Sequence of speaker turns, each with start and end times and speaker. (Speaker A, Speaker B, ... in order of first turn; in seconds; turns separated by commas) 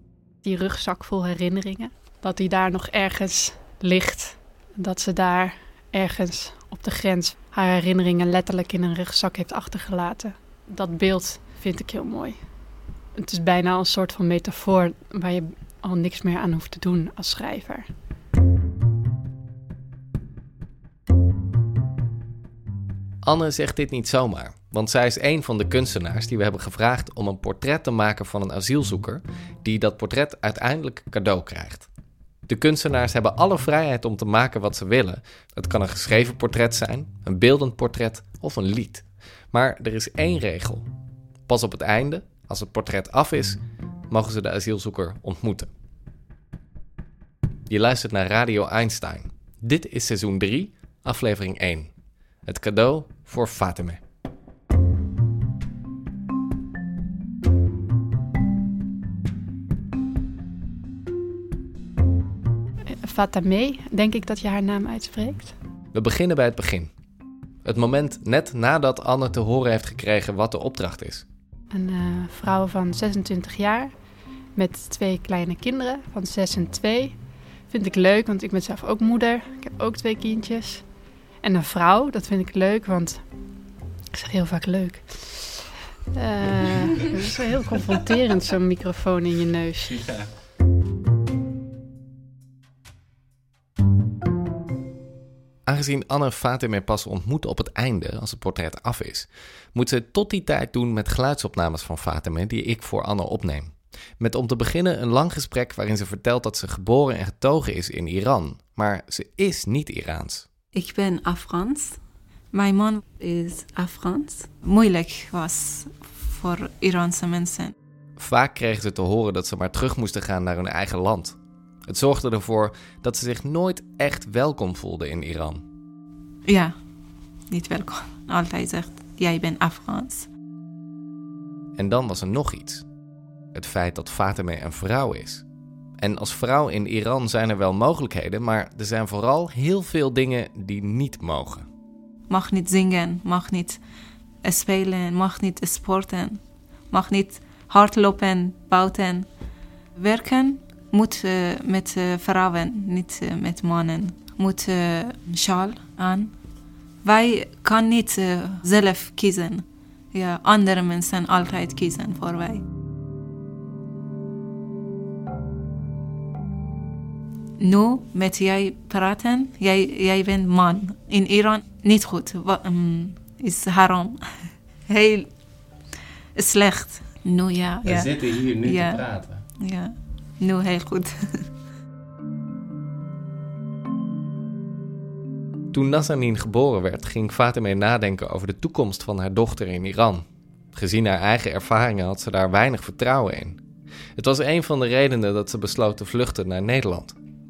Speaker A: 0.4-12.4, Speaker A: 13.2-17.9, Speaker B: 23.2-31.9, Speaker B: 32.5-40.9, Speaker B: 41.5-45.7, Speaker B: 47.7-51.9, Speaker B: 52.4-54.0, Speaker A: 62.9-65.5, Speaker B: 65.9-66.9, Speaker B: 67.6-71.2, Speaker A: 71.7-73.9, Speaker A: 74.5-77.2, Speaker A: 77.7-80.8, Speaker A: 81.4-83.2, Speaker A: 84.1-90.0, Speaker B: 95.7-110.5, Speaker C: 110.7-112.0, Speaker C: 112.5-117.7, Speaker B: 118.2-125.6, Speaker C: 126.5-126.8, Speaker C: 127.5-130.3, Speaker B: 131.8-132.8, Speaker B: 133.5-135.4, Speaker B: 136.0-141.7, Speaker C: 142.3-143.8, Speaker C: 144.4-149.3, Speaker C: 149.9-156.3, Speaker C: 157.0-162.6, Speaker C: 167.6-175.3, Speaker C: 176.3-179.1, Speaker C: 179.6-181.5, Speaker B: 185.7-193.6, Speaker B: 194.2-197.2